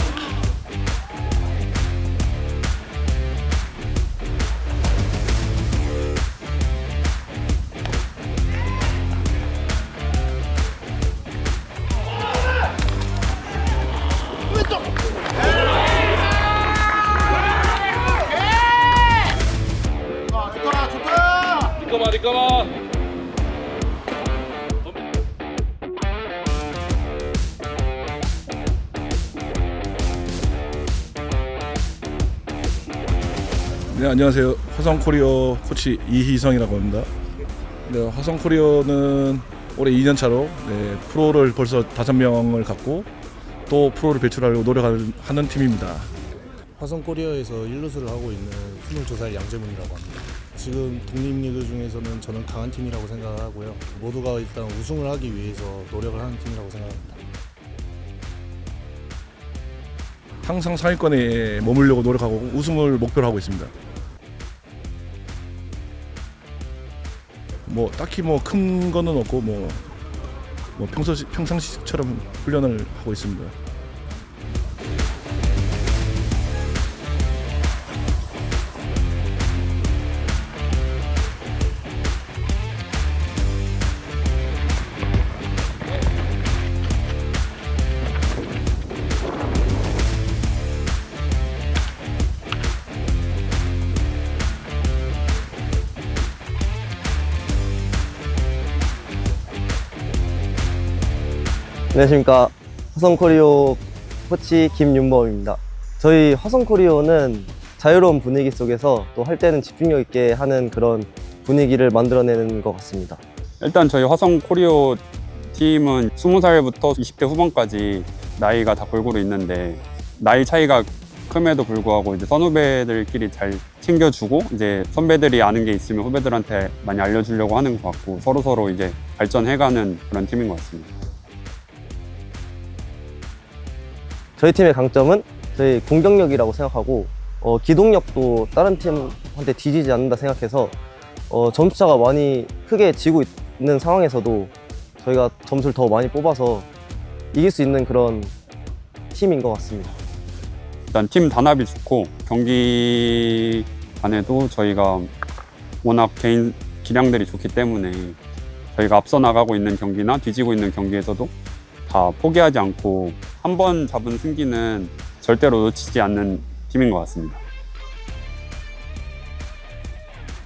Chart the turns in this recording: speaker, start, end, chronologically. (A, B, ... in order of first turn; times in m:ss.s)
0:22.0-0:22.6 A
0:33.9-0:37.1 A
0:37.9-0:43.1 A
0:43.7-0:46.1 A
0:46.8-0:57.2 B
1:00.4-1:03.7 A
1:07.7-1:09.8 A
1:10.8-1:13.5 A
1:41.9-1:53.2 C
1:53.6-1:55.0 D
1:55.5-2:10.9 D
2:14.4-2:20.8 C
2:21.3-2:26.7 C
2:27.3-2:28.3 C
2:29.1-2:30.0 C
2:30.9-2:35.1 D
2:35.8-2:38.2 D
2:38.8-2:41.3 D
2:41.9-2:47.4 D